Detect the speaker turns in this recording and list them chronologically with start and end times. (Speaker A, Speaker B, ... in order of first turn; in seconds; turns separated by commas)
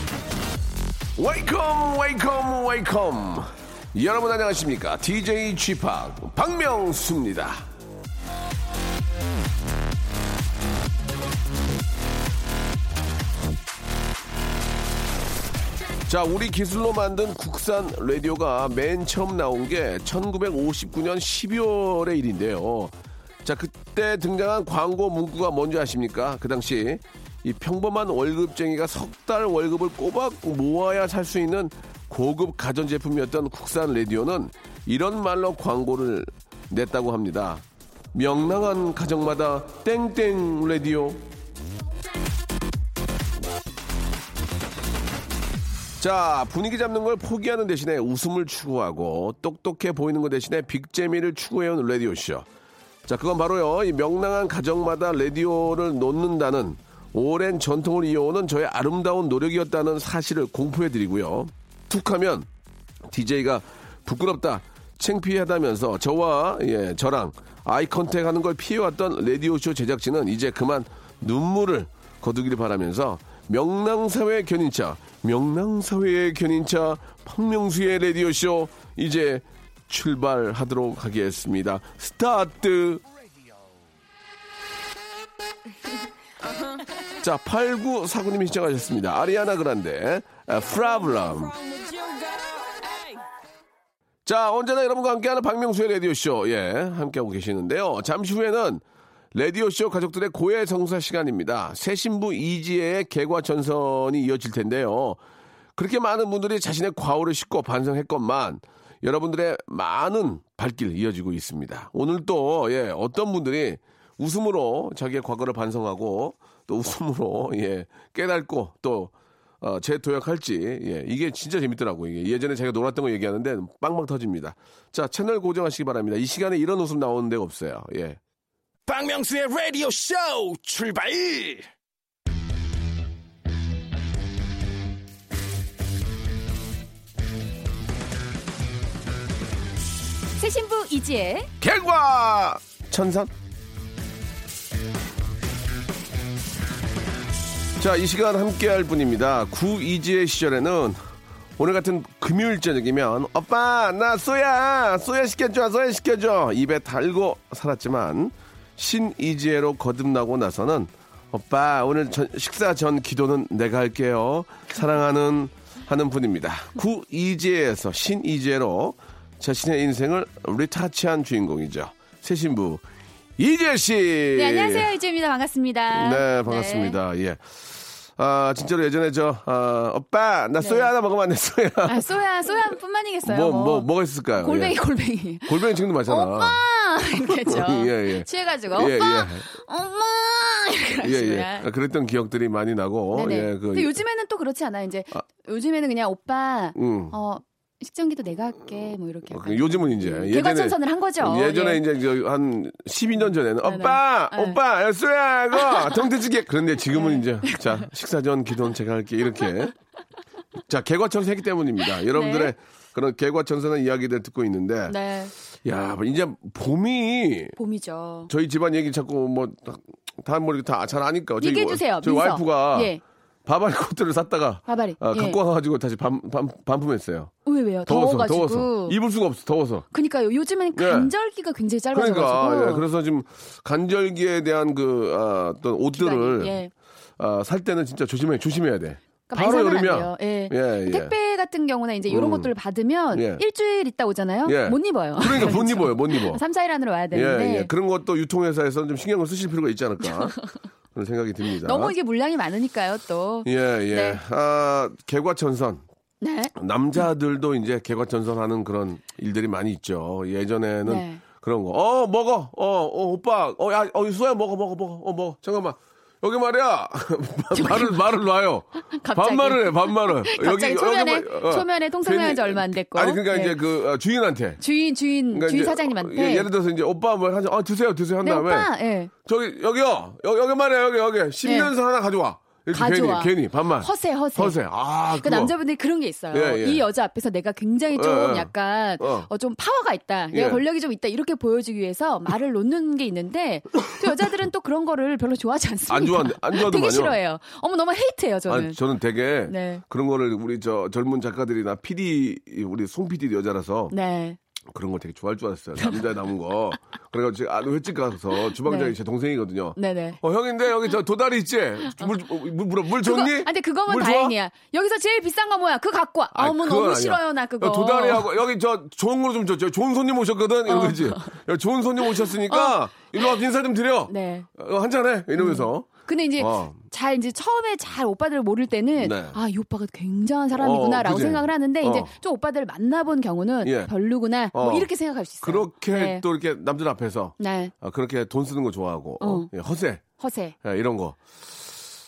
Speaker A: 1.2-7.7, Speaker A: 16.1-41.3, Speaker A: 46.0-52.5, Speaker A: 53.1-62.5, Speaker A: 63.1-83.0, Speaker A: 87.2-91.7, Speaker A: 94.2-105.2, Speaker A: 105.8-128.2, Speaker B: 128.9-131.7, Speaker C: 140.4-141.5, Speaker A: 141.6-143.3, Speaker A: 147.8-151.0, Speaker A: 151.6-172.8, Speaker A: 173.4-174.9, Speaker C: 174.3-177.0, Speaker A: 175.9-182.2, Speaker C: 180.6-180.9, Speaker C: 181.9-191.7, Speaker A: 183.2-184.8, Speaker A: 185.5-186.6, Speaker A: 187.3-189.5, Speaker A: 191.0-194.0, Speaker C: 193.1-201.8, Speaker A: 196.8-197.2, Speaker A: 199.3-209.8, Speaker C: 203.6-204.6, Speaker C: 205.6-205.9, Speaker C: 206.9-207.9, Speaker A: 210.7-215.0, Speaker C: 212.0-212.5, Speaker C: 214.9-215.3, Speaker A: 215.5-217.6, Speaker C: 217.6-218.3, Speaker A: 218.3-222.9, Speaker C: 221.4-223.0, Speaker A: 223.5-227.3, Speaker C: 224.7-225.4, Speaker C: 227.5-229.0, Speaker A: 227.9-229.9, Speaker C: 229.9-232.8, Speaker A: 230.7-231.1, Speaker A: 231.9-236.6, Speaker C: 235.9-236.7, Speaker A: 237.2-241.1, Speaker C: 239.3-247.7, Speaker A: 242.1-242.5, Speaker A: 243.1-243.4, Speaker A: 244.4-246.4, Speaker A: 247.1-250.4, Speaker A: 250.9-251.9, Speaker C: 251.6-254.2, Speaker A: 253.4-255.8, Speaker C: 256.2-256.5, Speaker A: 256.6-274.6, Speaker C: 260.9-261.2, Speaker C: 267.5-268.1, Speaker C: 268.8-273.6, Speaker C: 274.6-276.5, Speaker A: 275.3-285.6, Speaker C: 278.2-279.1, Speaker C: 281.4-281.7, Speaker C: 282.7-284.6, Speaker C: 285.1-298.8, Speaker A: 286.3-286.9, Speaker A: 287.9-289.3, Speaker A: 290.3-290.6, Speaker A: 295.9-297.2, Speaker A: 298.5-303.9, Speaker C: 299.5-299.8, Speaker C: 303.9-304.4, Speaker A: 304.7-314.3, Speaker C: 308.6-308.9, Speaker C: 309.8-310.2, Speaker C: 313.0-318.3, Speaker A: 316.3-326.8, Speaker C: 320.7-321.4, Speaker C: 322.1-323.4, Speaker C: 324.1-324.5, Speaker C: 325.4-336.2, Speaker A: 329.0-329.4, Speaker A: 330.6-332.1, Speaker A: 333.6-333.9, Speaker A: 334.5-340.0, Speaker C: 337.4-337.7, Speaker C: 339.2-339.5, Speaker C: 340.2-340.6, Speaker A: 340.6-341.8